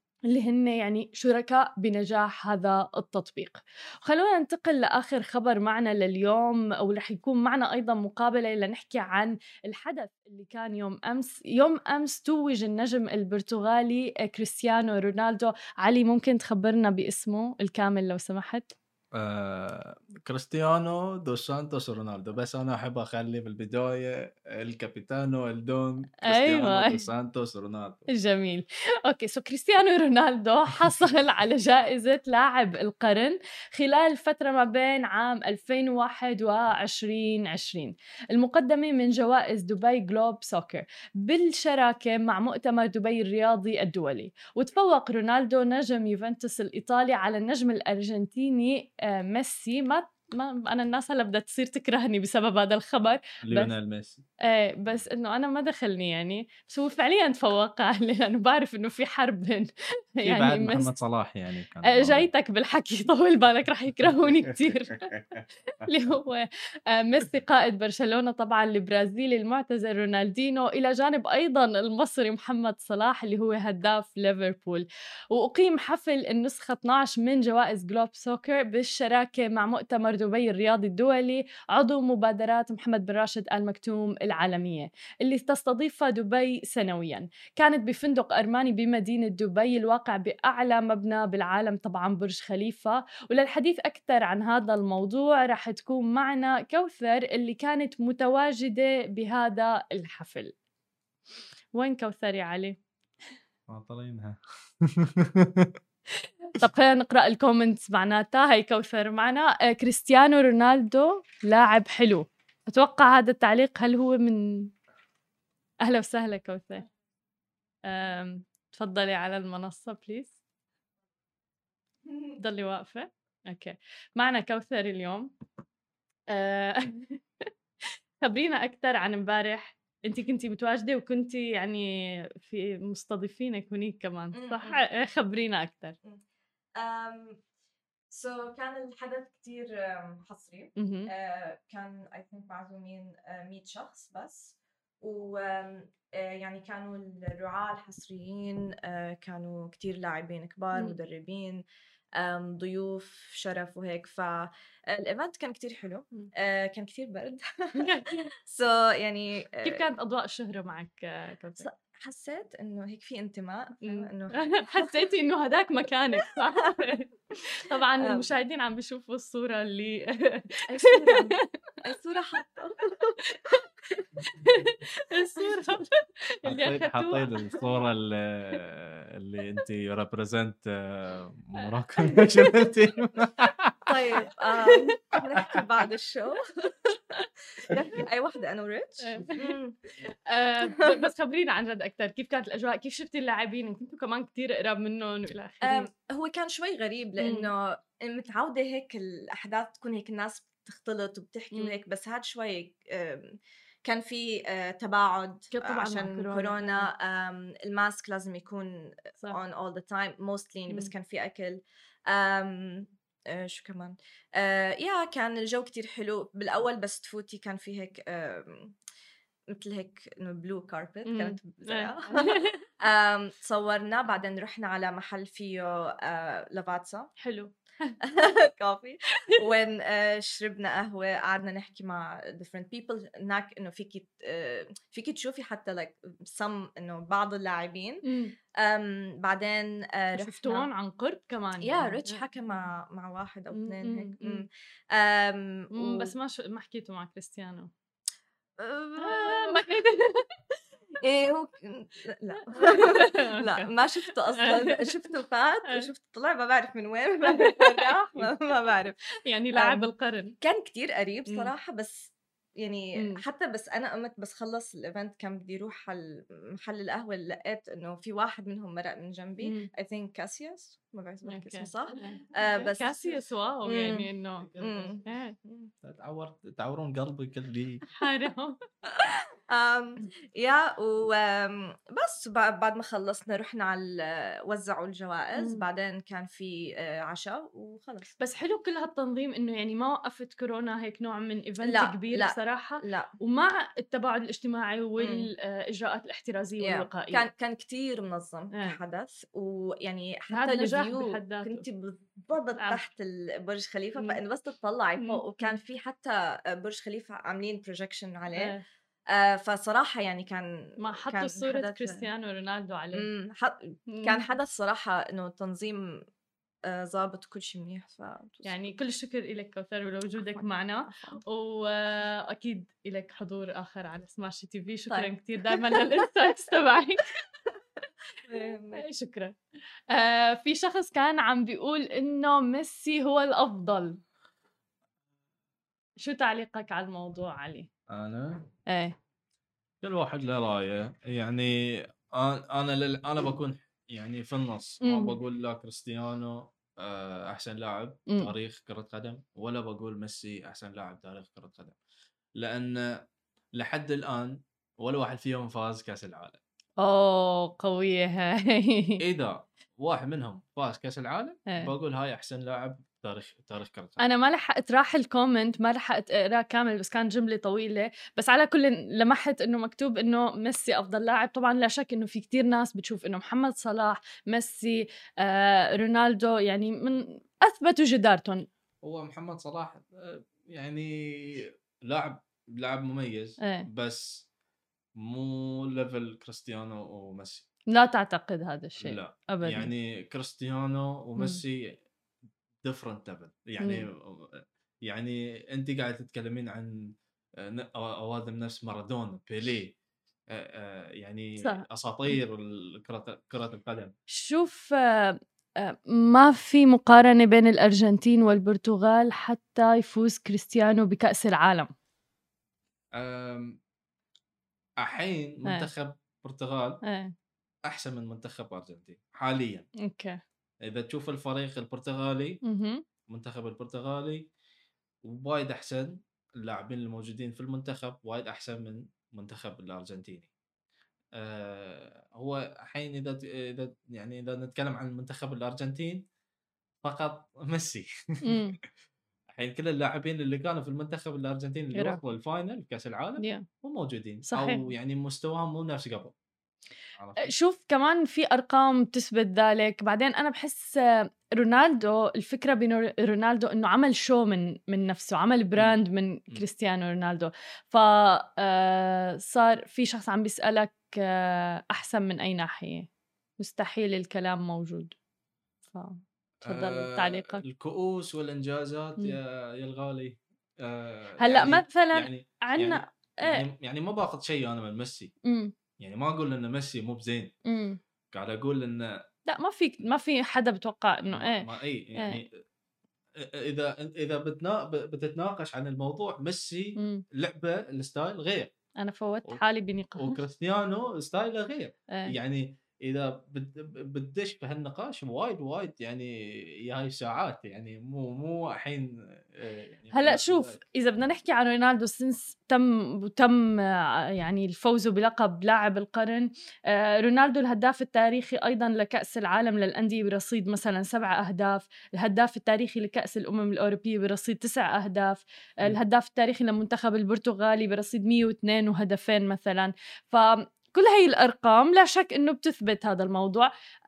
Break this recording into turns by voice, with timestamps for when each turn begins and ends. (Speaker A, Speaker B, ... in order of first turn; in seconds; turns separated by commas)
Speaker A: 0.3-18.7, Speaker B: 19.1-28.1, Speaker A: 26.2-27.1, Speaker A: 28.1-53.7, Speaker B: 53.4-54.3, Speaker A: 54.4-60.9, Speaker B: 60.2-62.3, Speaker A: 61.8-65.1, Speaker B: 64.1-65.4, Speaker A: 65.8-100.5, Speaker A: 101.7-102.8, Speaker B: 103.7-105.7, Speaker A: 106.5-114.7, Speaker A: 115.8-116.9, Speaker A: 117.9-120.4, Speaker A: 122.4-125.3, Speaker A: 126.3-127.5, Speaker A: 128.2-136.0, Speaker C: 134.3-134.8, Speaker C: 136.8-137.4, Speaker C: 138.1-151.6, Speaker A: 140.8-141.1, Speaker C: 152.2-159.9, Speaker A: 157.8-158.2, Speaker A: 159.6-161.7, Speaker C: 161.6-165.1, Speaker A: 163.8-171.4, Speaker C: 166.2-166.9, Speaker C: 168.0-168.3, Speaker C: 170.7-173.2, Speaker A: 173.3-177.7, Speaker B: 176.4-183.8, Speaker A: 182.0-182.7, Speaker C: 183.9-189.8, Speaker A: 184.6-184.9, Speaker B: 185.4-185.7, Speaker A: 189.0-195.9, Speaker C: 190.6-191.0, Speaker C: 195.6-218.8, Speaker A: 197.2-197.5, Speaker A: 201.5-201.8, Speaker A: 205.5-206.9, Speaker C: 219.5-227.1, Speaker A: 221.1-222.6, Speaker A: 227.2-228.0, Speaker C: 228.1-238.0, Speaker A: 238.1-238.3, Speaker C: 238.6-240.7, Speaker A: 240.2-242.2, Speaker C: 241.6-246.1, Speaker A: 243.5-244.4, Speaker A: 245.7-247.7, Speaker C: 248.6-249.8, Speaker A: 249.0-250.2, Speaker C: 251.0-275.7, Speaker A: 252.5-253.7, Speaker A: 254.4-254.9, Speaker A: 257.3-258.4, Speaker A: 259.2-260.4, Speaker A: 262.9-263.2, Speaker A: 269.4-269.7, Speaker A: 271.3-274.5, Speaker B: 274.4-275.0, Speaker A: 275.0-275.4, Speaker B: 275.8-277.9, Speaker A: 278.0-278.6, Speaker C: 279.0-288.2, Speaker A: 285.4-285.6, Speaker A: 288.2-297.2, Speaker C: 291.6-293.1, Speaker C: 295.0-295.3, Speaker C: 296.6-308.5, Speaker A: 300.3-301.6, Speaker A: 302.6-302.8, Speaker A: 305.0-305.6, Speaker A: 308.3-308.6, Speaker C: 309.1-312.1, Speaker A: 310.8-313.1, Speaker C: 312.9-316.0, Speaker A: 313.9-314.2, Speaker C: 316.6-318.7, Speaker A: 318.4-327.1, Speaker C: 320.3-321.2, Speaker C: 324.9-326.0, Speaker C: 328.2-328.9, Speaker A: 328.7-329.4, Speaker A: 329.9-334.0, Speaker A: 336.0-337.7, Speaker B: 337.9-338.5, Speaker A: 338.7-338.9, Speaker B: 339.8-351.8, Speaker A: 344.8-345.2, Speaker B: 352.4-356.4, Speaker A: 356.8-359.0, Speaker B: 359.0-364.0, Speaker A: 361.5-361.7, Speaker A: 364.0-378.5, Speaker B: 378.8-384.3, Speaker A: 383.4-383.7, Speaker B: 385.0-387.5, Speaker A: 387.7-389.7, Speaker B: 388.8-391.8, Speaker B: 392.6-399.8, Speaker A: 393.6-393.9, Speaker B: 400.3-403.9, Speaker A: 401.4-401.6, Speaker A: 404.1-411.7, Speaker B: 412.9-413.6, Speaker B: 414.8-416.8, Speaker A: 416.8-417.1, Speaker B: 417.7-419.7, Speaker A: 419.8-420.2, Speaker B: 420.6-422.4, Speaker A: 422.4-422.8, Speaker B: 423.1-424.3, Speaker B: 425.1-430.3, Speaker B: 431.2-436.1, Speaker B: 436.8-438.4, Speaker A: 438.2-438.6, Speaker B: 439.3-446.1, Speaker A: 441.8-442.0, Speaker A: 443.2-443.4, Speaker A: 444.3-444.7, Speaker B: 447.0-447.3, Speaker A: 447.2-462.9, Speaker A: 463.4-464.9, Speaker A: 465.7-467.4, Speaker B: 466.4-475.1, Speaker A: 471.2-473.4, Speaker A: 475.2-475.5, Speaker B: 475.8-477.4, Speaker A: 477.5-477.8, Speaker B: 478.1-479.0, Speaker A: 479.3-482.2, Speaker B: 481.1-482.3, Speaker B: 483.2-488.5, Speaker A: 486.8-487.0, Speaker A: 488.8-490.2, Speaker B: 490.0-500.6, Speaker A: 491.9-492.1, Speaker A: 499.9-523.5